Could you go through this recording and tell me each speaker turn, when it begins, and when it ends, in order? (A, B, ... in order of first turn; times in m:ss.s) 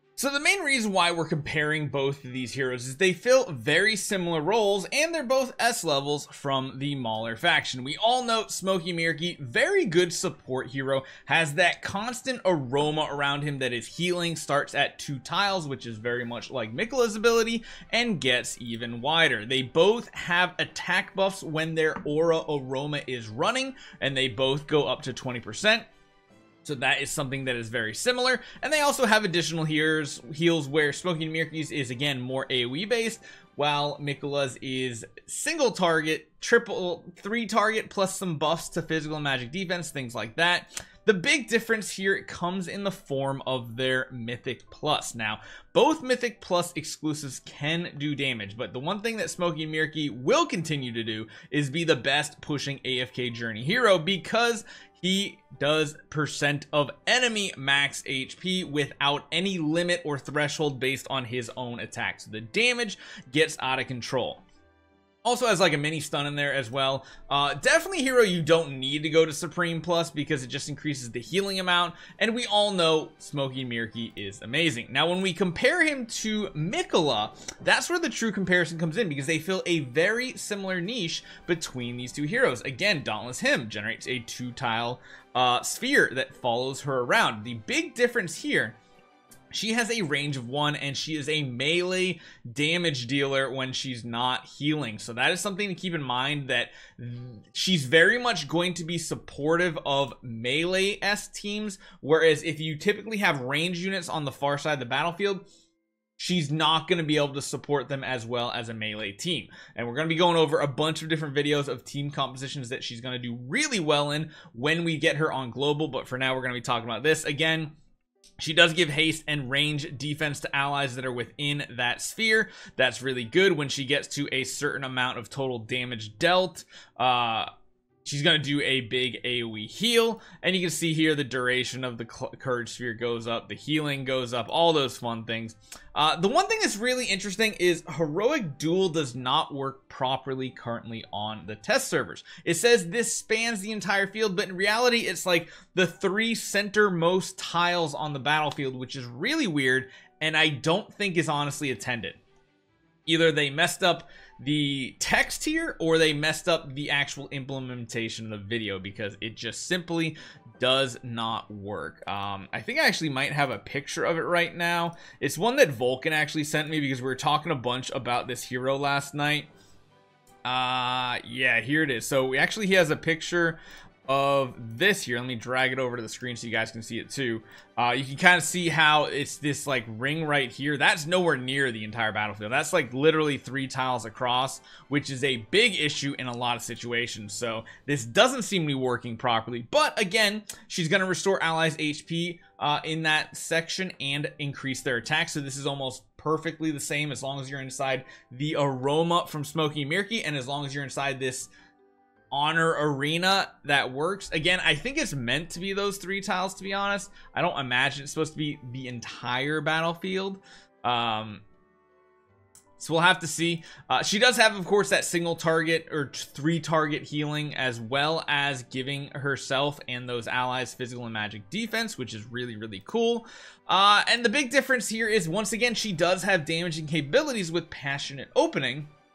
0:00.2-0:25.9 A
0:26.6-1:04.4 A
1:05.2-1:28.8 A
1:29.5-1:45.4 A
1:46.2-1:57.7 A
1:58.4-2:07.5 A
2:08.0-2:32.2 A
2:33.1-2:49.5 A
2:50.4-3:21.5 A
3:22.3-3:31.4 A
3:32.8-3:48.9 A